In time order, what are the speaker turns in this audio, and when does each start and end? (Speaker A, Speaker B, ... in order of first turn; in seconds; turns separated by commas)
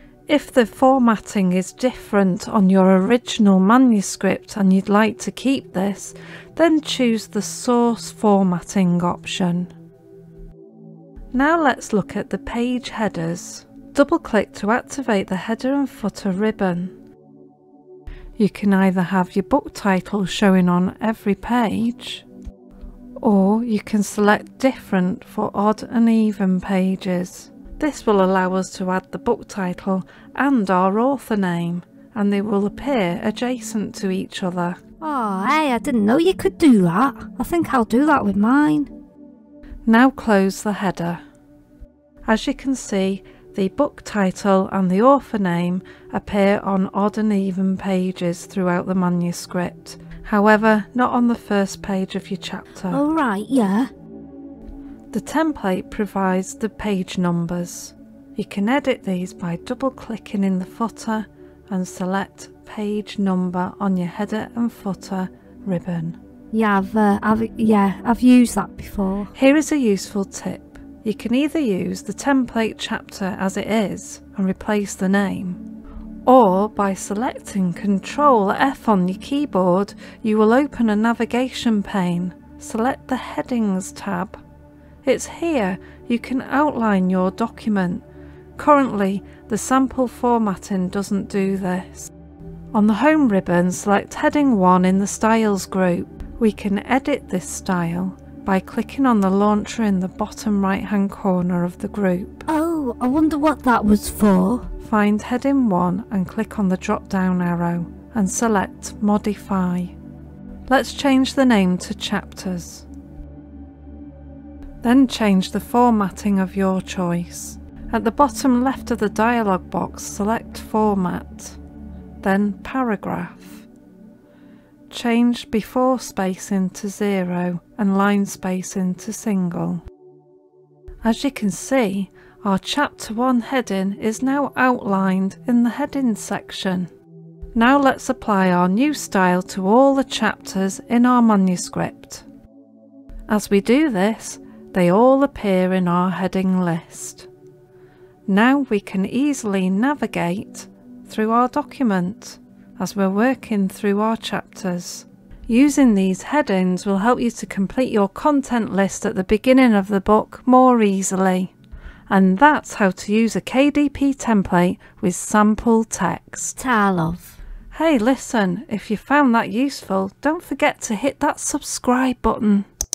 Speaker A: 0.3-9.7, Speaker A: 11.3-16.9, Speaker A: 18.4-22.2, Speaker A: 23.2-34.8, Speaker B: 35.0-38.9, Speaker A: 39.9-41.2, Speaker A: 42.3-53.0, Speaker B: 52.9-53.9, Speaker A: 55.1-66.2, Speaker B: 66.5-69.3, Speaker A: 69.3-75.6, Speaker A: 76.2-84.4, Speaker A: 85.0-88.0, Speaker A: 88.6-92.1, Speaker A: 92.7-102.5, Speaker B: 102.5-104.7, Speaker A: 104.8-109.9, Speaker A: 110.7-112.8, Speaker A: 114.8-121.6, Speaker A: 122.2-123.7, Speaker A: 124.9-129.8, Speaker A: 131.0-136.9, Speaker A: 137.5-142.2, Speaker A: 143.3-147.3, Speaker A: 148.3-161.5, Speaker A: 162.1-166.6, Speaker B: 166.6-167.3, Speaker A: 167.7-172.7